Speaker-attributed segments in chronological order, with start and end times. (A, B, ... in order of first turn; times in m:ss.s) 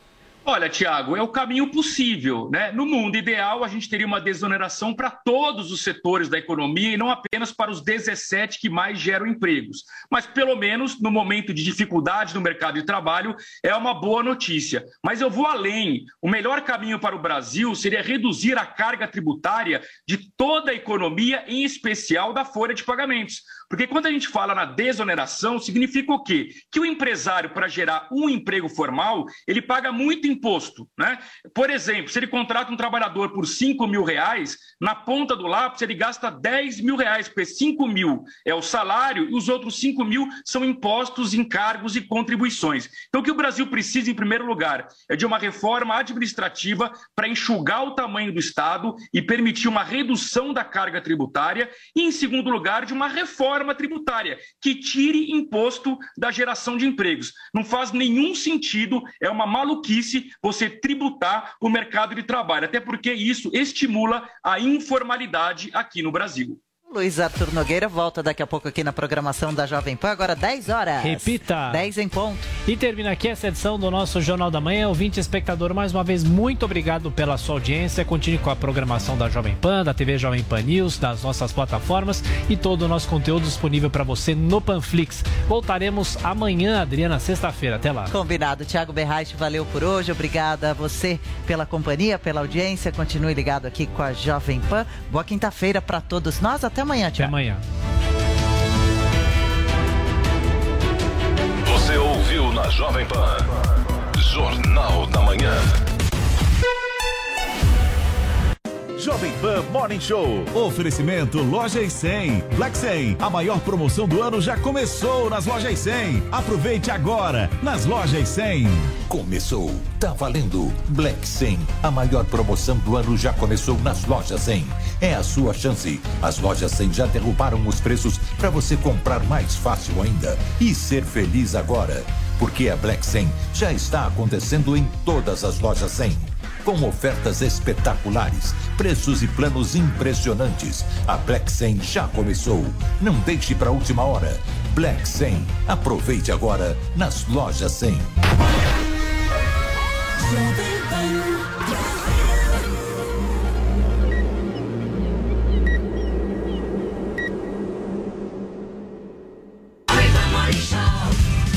0:00.4-1:06.6 A
1:06.9-1:12.5 B
1:11.0-1:11.8 C
1:12.6-1:28.1 C
1:28.1-1:37.3 B
1:37.2-1:37.6 C
1:41.7-1:43.4 D
1:44.2-1:45.6 D
1:49.0-1:58.9 E
1:59.0-2:28.1 F